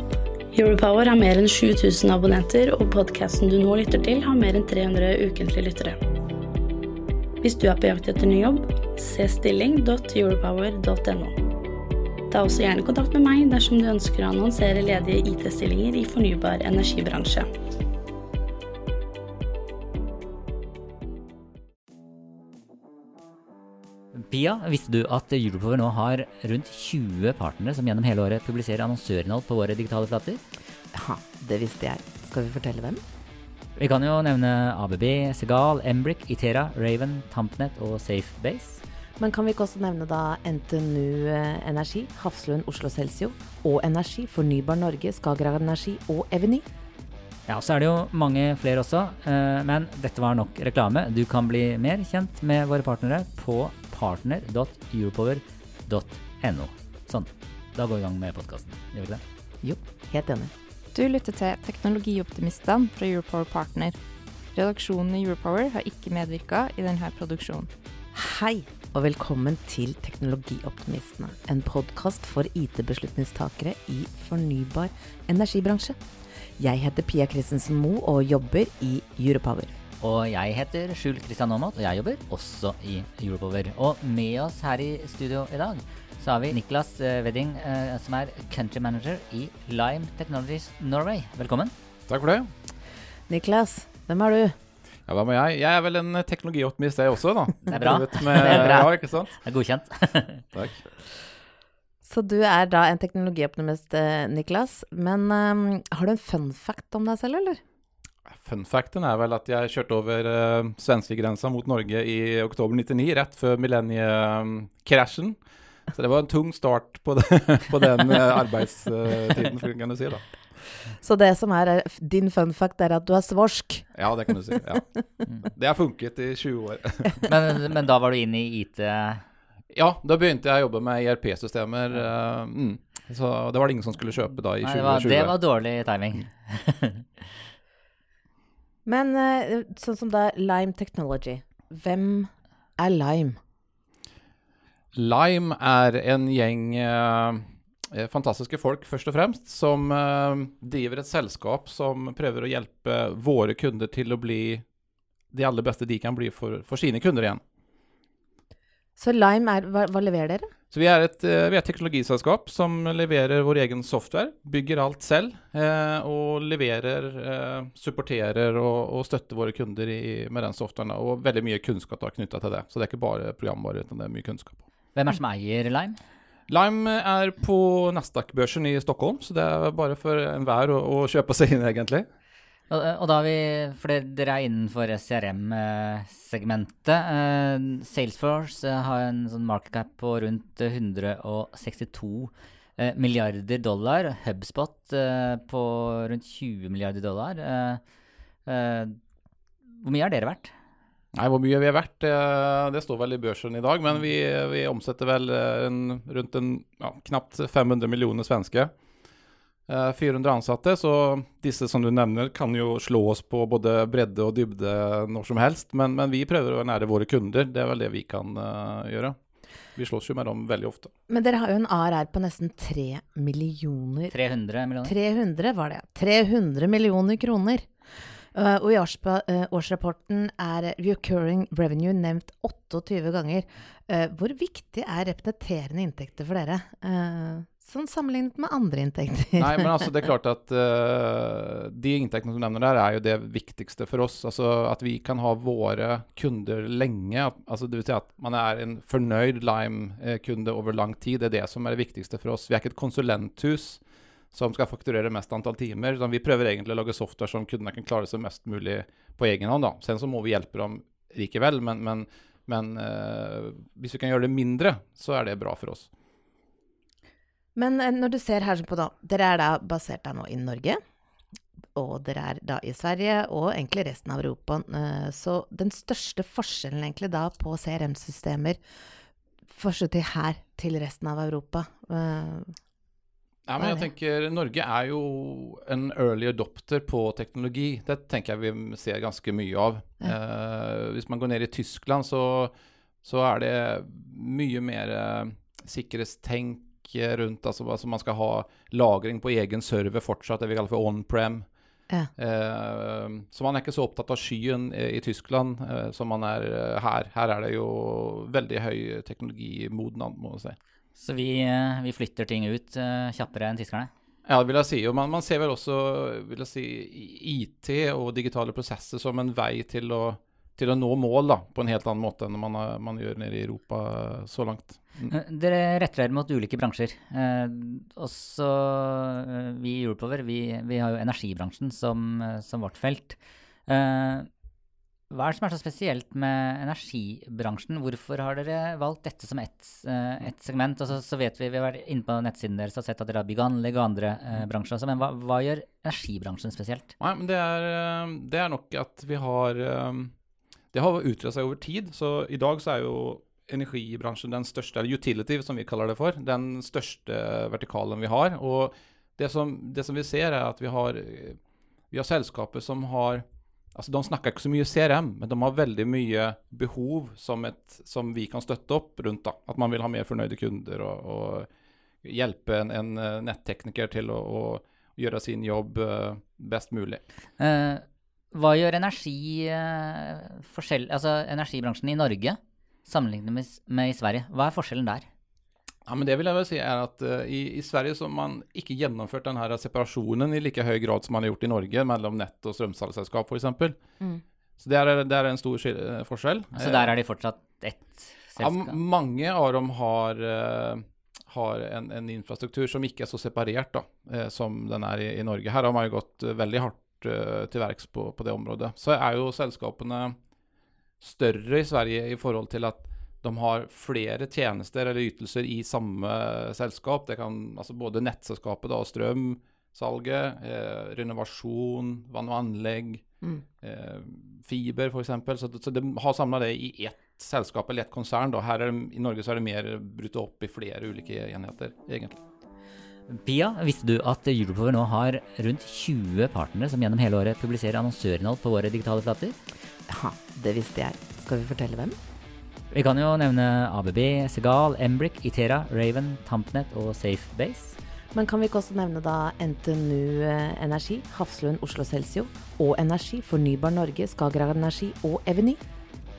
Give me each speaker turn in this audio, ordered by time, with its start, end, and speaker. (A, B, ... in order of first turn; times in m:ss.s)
0:00.5-0:06.0 A
0:07.4-0:11.4 A
0:12.3-0:17.5 A
0:24.3-0:30.4 B
0:30.9-0:33.0 C
0:33.8-0:38.8 B
0:39.2-0:46.6 C
0:47.5-0:59.2 B
0:59.6-1:00.5 C
1:00.9-1:04.0 D
1:04.6-1:07.7 D
1:08.1-1:16.0 C
1:16.6-1:19.7 C
1:20.0-1:31.7 B
1:32.1-1:32.5 E
1:33.3-1:34.5 C
1:35.1-1:39.4 E
1:37.7-1:40.4 B
1:40.5-1:40.8 E
1:42.0-1:47.6 C
1:48.3-1:55.4 E
1:55.9-2:00.3 E
2:01.0-2:04.2 C
2:03.9-2:04.9 E
2:05.5-2:07.2 E
2:07.2-2:09.2 B
2:09.7-2:15.4 E
2:14.6-2:17.2 B
2:18.8-2:23.4 C
2:24.9-2:34.6 E
2:35.3-2:37.4 E
2:39.0-2:40.5 C
2:40.7-2:54.6 E
2:54.9-2:56.0 B
2:56.5-3:02.0 E
3:02.7-3:17.8 B
3:18.4-3:19.0 B
3:19.8-3:20.5 B
3:21.1-3:28.7 E
3:29.7-3:39.2 E
3:39.8-3:40.9 E
3:41.1-3:44.1 C
3:44.1-3:44.9 B
3:44.8-3:47.7 C
3:48.3-3:59.8 C
3:59.4-4:13.8 E
4:14.3-4:25.9 E
4:27.6-4:30.8 C
4:31.8-4:38.6 C
4:39.5-4:42.5 C
4:43.5-4:52.5 E
4:43.6-4:43.9 C
4:53.0-5:01.5 E
5:02.2-5:10.6 E
5:11.0-5:13.9 B
5:14.2-5:25.1 E
5:25.1-5:34.3 B
5:35.1-5:46.9 B
5:47.0-5:50.1 E
5:50.7-6:01.4 E
6:01.9-6:03.2 E
6:03.8-6:11.5 E
6:12.0-6:17.0 E
6:17.4-6:25.0 B
6:25.9-6:33.8 E
6:34.6-6:36.9 E
6:36.6-6:38.8 B
6:38.4-6:50.2 E
6:51.0-7:03.0 E
7:03.6-7:12.2 E
7:13.1-7:19.4 B
7:19.9-7:21.9 C
7:22.7-7:27.8 B
7:28.1-7:35.6 C